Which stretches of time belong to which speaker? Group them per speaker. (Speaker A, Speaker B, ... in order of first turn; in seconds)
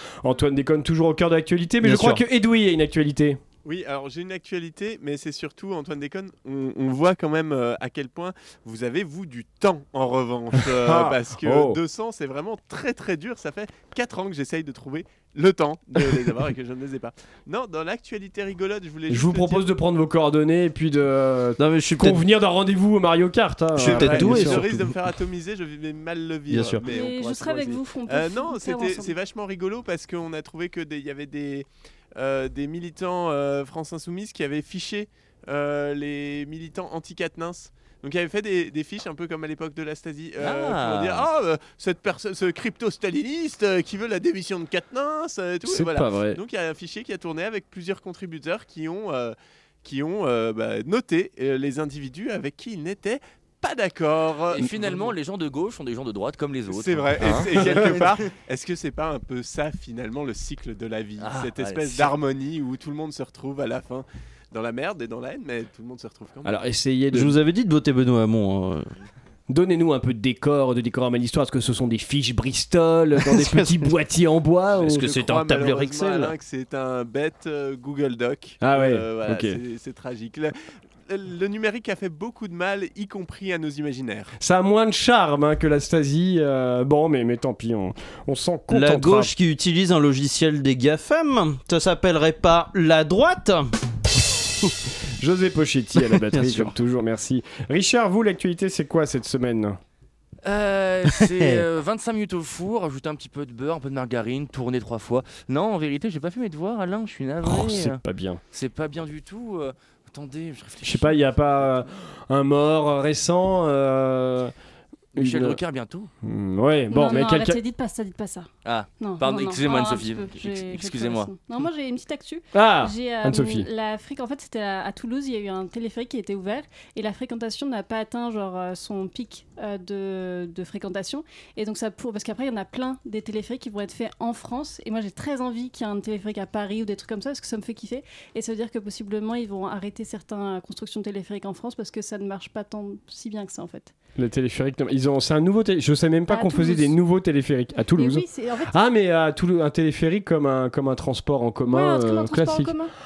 Speaker A: 0.2-3.4, 10.6-11.8, 19.1-24.6, 45.6-46.4, 66.4-67.3, 69.5-75.0, 78.6-79.6, 84.4-89.3, 94.6-99.8, 107.4-108.4, 110.8-114.5, 115.2-115.6, 116.2-117.6, 122.5-123.7, 144.2-152.8
Speaker B: 1.8-2.2, 21.6-22.2, 23.8-24.9, 26.5-26.9, 67.1-68.9, 73.2-73.9, 74.7-76.3, 88.7-93.7, 96.0-96.7, 101.1-101.6
Speaker C: 3.6-19.7, 23.8-55.1, 56.7-66.6, 74.9-80.5, 81.1-84.3
Speaker D: 26.9-29.1, 116.9-118.5, 119.0-143.9, 146.3-147.0, 147.8-148.7, 151.7-152.9
Speaker E: 40.4-41.3, 54.5-58.3, 61.2-62.1, 100.4-108.0, 108.5-111.2, 115.2-116.1, 118.6-121.3